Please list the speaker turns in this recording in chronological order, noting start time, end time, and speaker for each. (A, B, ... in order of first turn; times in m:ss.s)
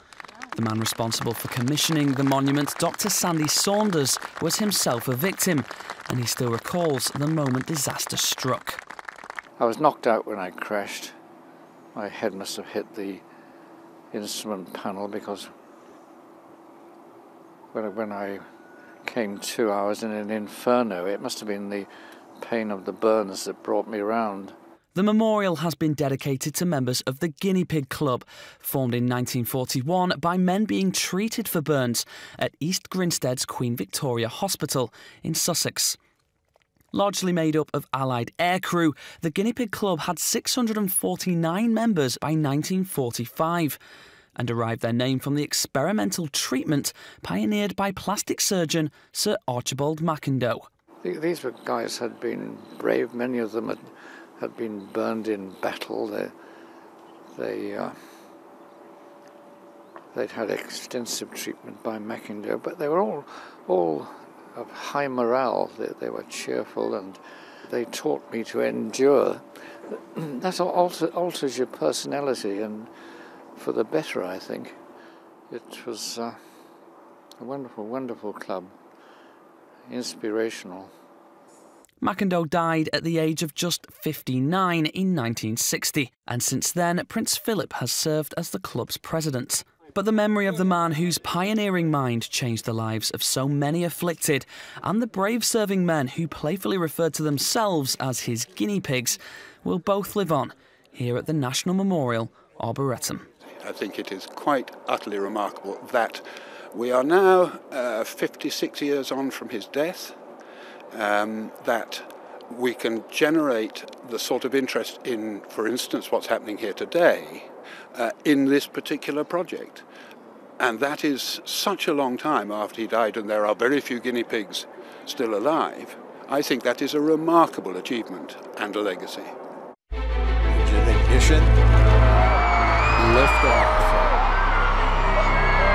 0:00.5-0:08.8 A
0:09.6-0:11.1 B
0:11.9-0:13.2 B
0:14.1-0:15.5 B
0:17.7-0:18.4 B
0:19.0-0:21.9 B
0:22.4-0:24.6 B
0:24.9-0:36.0 A
0:36.9-0:43.8 A
0:44.4-0:50.6 A
0:51.0-0:53.9 B
0:54.4-0:56.3 B
0:57.3-0:57.9 B
1:00.1-1:12.9 B
1:13.6-1:14.8 B
1:15.5-1:16.4 B
1:17.4-1:18.7 B
1:19.9-1:20.9 B
1:22.0-1:43.2 A
1:43.6-1:50.2 C
1:50.9-1:59.8 C
2:00.6-2:09.4 C
2:10.5-2:11.5 D
2:13.0-2:14.1 D